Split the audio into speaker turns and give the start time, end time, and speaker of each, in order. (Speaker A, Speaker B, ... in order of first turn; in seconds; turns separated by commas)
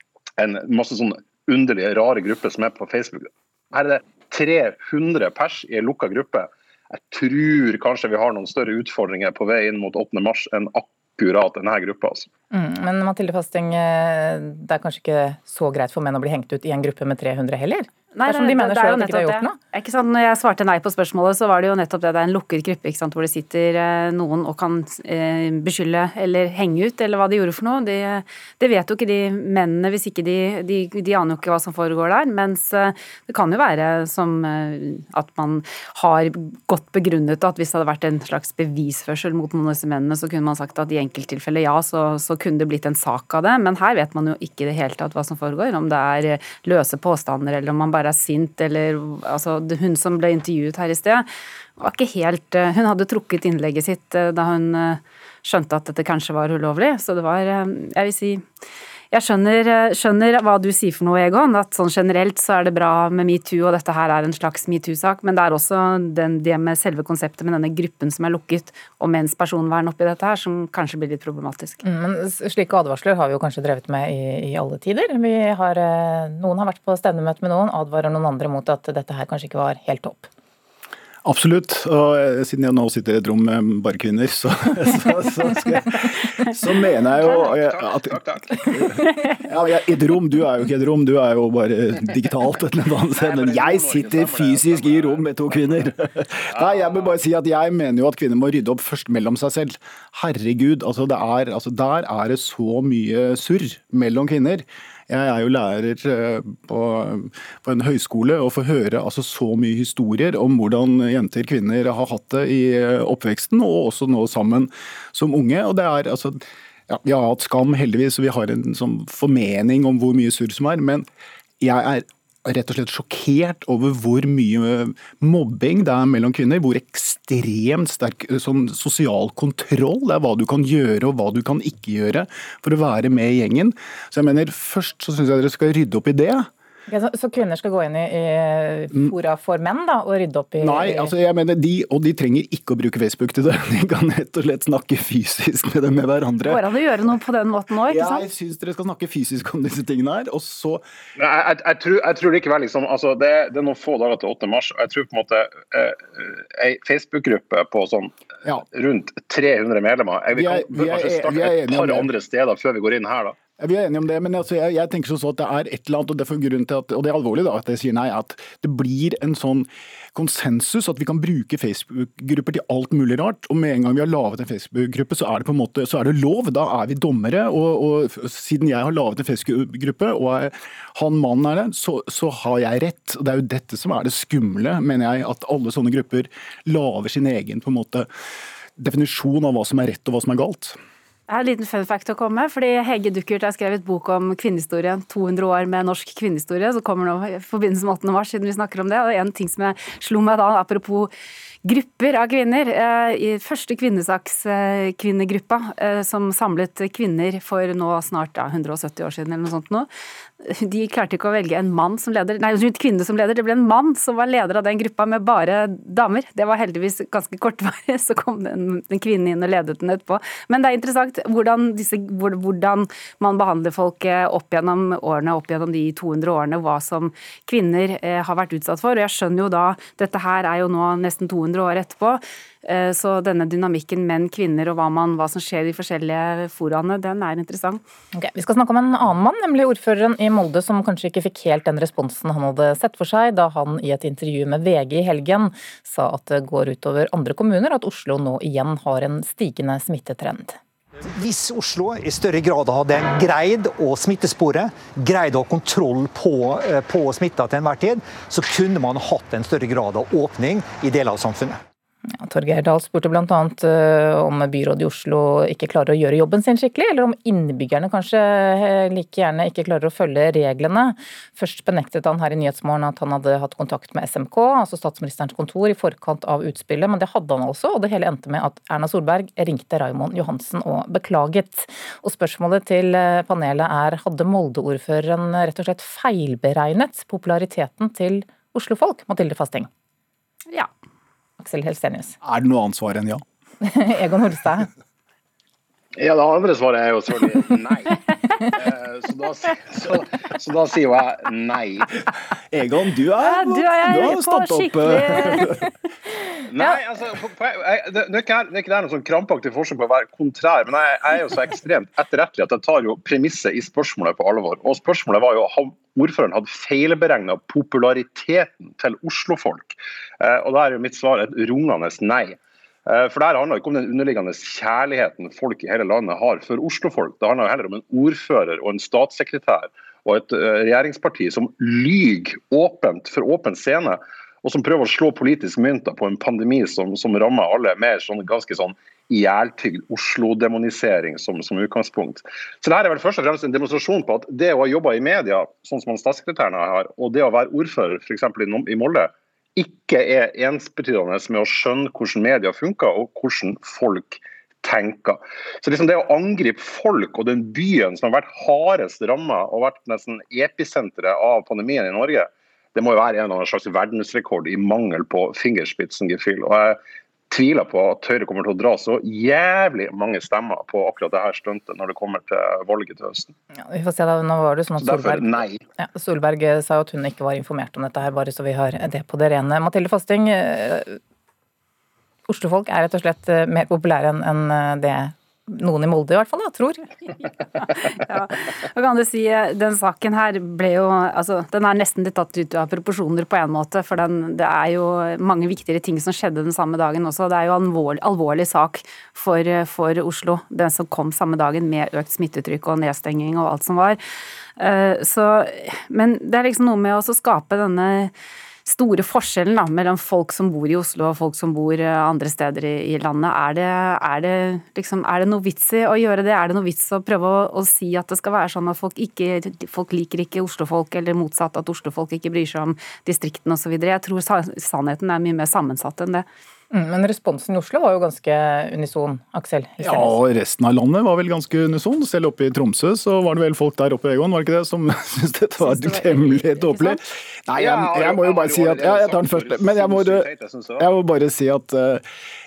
Speaker A: 0.4-12.3, Speaker B: 12.5-19.6, Speaker C: 18.1-51.2, Speaker C: 51.8-58.4, Speaker C: 59.1-71.8, Speaker B: 71.8-80.3, Speaker D: 81.2-121.0, Speaker A: 87.2-89.1, Speaker A: 93.1-95.9, Speaker A: 96.5-97.1, Speaker D: 121.6-136.5, Speaker B: 136.9-141.1, Speaker D: 140.6-146.6, Speaker C: 146.4-148.2, Speaker D: 147.8-150.8, Speaker A: 151.2-158.1, Speaker A: 158.7-163.4, Speaker D: 160.3-162.1, Speaker D: 163.6-188.1, Speaker D: 188.8-190.8, Speaker C: 191.3-201.1, Speaker C: 201.6-209.9, Speaker C: 210.4-237.8, Speaker B: 238.1-250.6, Speaker E: 251.1-261.6, Speaker B: 262.2-289.7, Speaker B: 291.4-292.1, Speaker D: 292.2-293.2, Speaker B: 293.6-294.7, Speaker A: 296.0-301.9, Speaker D: 302.5-305.6, Speaker C: 303.2-305.6, Speaker A: 306.5-366.8, Speaker A: 367.3-373.3, Speaker B: 373.7-381.0, Speaker A: 374.8-375.6, Speaker B: 382.3-386.9, Speaker C: 387.5-404.0, Speaker C: 404.6-408.1, Speaker C: 408.6-426.2, Speaker B: 426.7-430.2, Speaker D: 429.8-442.0, Speaker C: 435.6-437.0, Speaker A: 437.6-440.9